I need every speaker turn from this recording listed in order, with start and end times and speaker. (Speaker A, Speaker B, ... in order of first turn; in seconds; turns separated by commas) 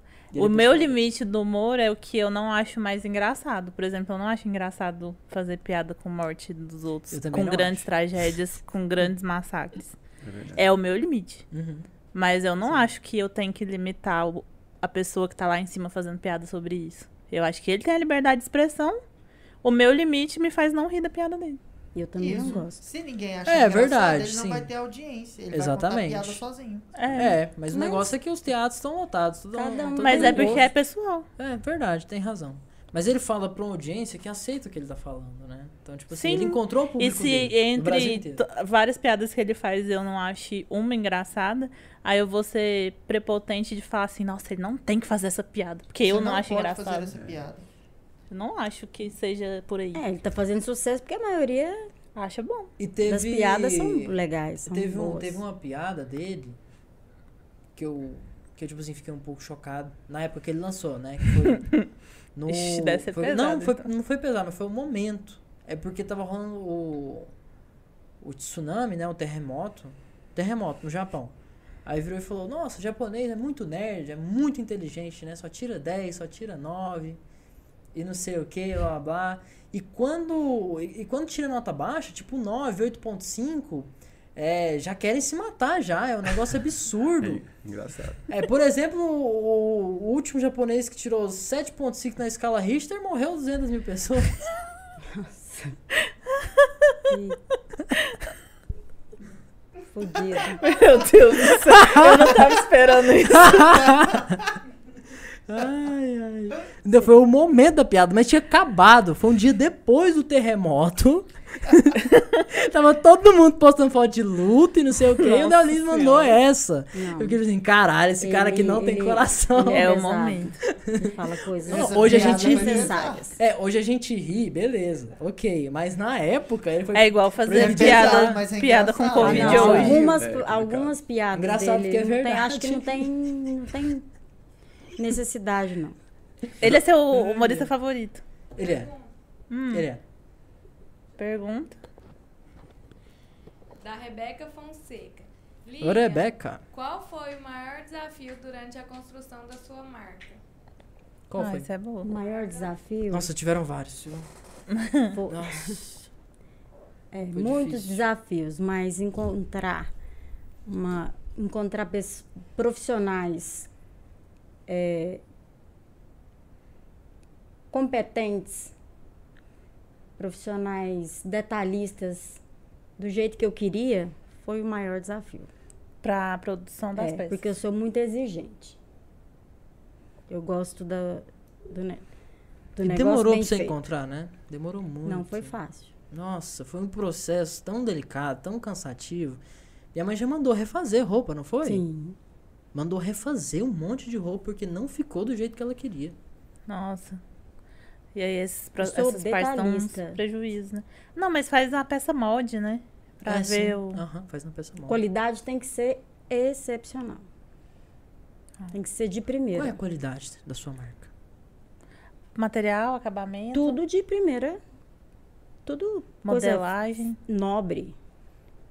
Speaker A: 0.3-1.0, Speaker B: 0.3-9.9, Speaker A: 7.1-7.9, Speaker C: 10.2-10.6, Speaker B: 10.6-11.4, Speaker A: 11.5-11.9, Speaker B: 12.1-19.0, Speaker B: 19.6-21.6, Speaker D: 21.9-22.8, Speaker E: 22.2-26.9, Speaker A: 23.5-24.7, Speaker A: 25.5-26.4, Speaker B: 27.0-27.4, Speaker A: 27.1-30.7, Speaker D: 27.7-28.1, Speaker D: 29.5-30.7, Speaker B: 30.0-31.3, Speaker A: 31.4-38.4, Speaker B: 36.1-47.1, Speaker E: 46.0-47.7, Speaker C: 47.1-47.4, Speaker B: 48.3-50.0, Speaker D: 49.9-51.9, Speaker B: 52.2-52.7, Speaker A: 52.8-56.6, Speaker D: 53.0-55.4, Speaker A: 57.8-61.7, Speaker A: 62.4-67.3, Speaker B: 62.5-63.9, Speaker A: 68.2-71.3, Speaker A: 71.9-77.2, Speaker A: 77.9-87.4, Speaker C: 87.2-88.3, Speaker A: 88.3-94.4, Speaker D: 95.0-95.8, Speaker B: 96.4-97.0, Speaker D: 97.1-97.4, Speaker D: 99.9-100.7, Speaker B: 100.6-104.0, Speaker A: 101.8-102.1, Speaker A: 103.4-104.4, Speaker A: 105.5-119.9, Speaker B: 115.2-116.4, Speaker D: 116.9-117.4, Speaker D: 118.2-123.4, Speaker B: 119.7-120.5, Speaker A: 120.7-121.2, Speaker E: 121.6-123.2, Speaker A: 121.7-128.4, Speaker B: 126.9-130.0, Speaker E: 127.5-129.8, Speaker A: 129.2-130.1, Speaker D: 129.2-134.1, Speaker C: 129.5-130.9, Speaker A: 131.3-133.2, Speaker D: 135.0-136.0, Speaker A: 136.6-137.7, Speaker B: 136.6-138.2, Speaker A: 138.6-138.9, Speaker F: 138.6-139.1, Speaker B: 139.5-139.9, Speaker A: 139.7-140.0, Speaker B: 141.2-141.8, Speaker F: 143.8-150.4, Speaker A: 145.8-146.6, Speaker A: 151.3-151.7, Speaker B: 151.4-152.1, Speaker D: 152.0-153.3, Speaker F: 152.1-152.8, Speaker A: 153.1-154.3, Speaker B: 154.7-155.1, Speaker D: 155.1-155.8, Speaker A: 155.3-156.1, Speaker D: 157.1-159.9, Speaker A: 157.3-158.0, Speaker D: 160.7-163.7, Speaker D: 164.7-165.2, Speaker D: 167.7-168.7, Speaker D: 170.2-172.4, Speaker D: 173.0-175.5, Speaker B: 176.0-177.5, Speaker D: 177.0-178.8, Speaker D: 180.3-182.1, Speaker D: 182.8-183.8, Speaker A: 182.8-185.5, Speaker D: 185.1-185.9, Speaker A: 186.1-189.4, Speaker A: 189.9-191.8, Speaker D: 191.6-192.2, Speaker A: 192.7-196.2, Speaker B: 196.7-197.2, Speaker B: 198.2-204.0, Speaker D: 198.8-200.2, Speaker A: 203.2-205.0, Speaker D: 204.9-207.2, Speaker D: 208.7-209.8, Speaker A: 209.5-211.1, Speaker B: 212.3-213.8, Speaker D: 213.5-214.6, Speaker D: 215.7-216.7, Speaker B: 216.2-217.2, Speaker D: 217.3-218.0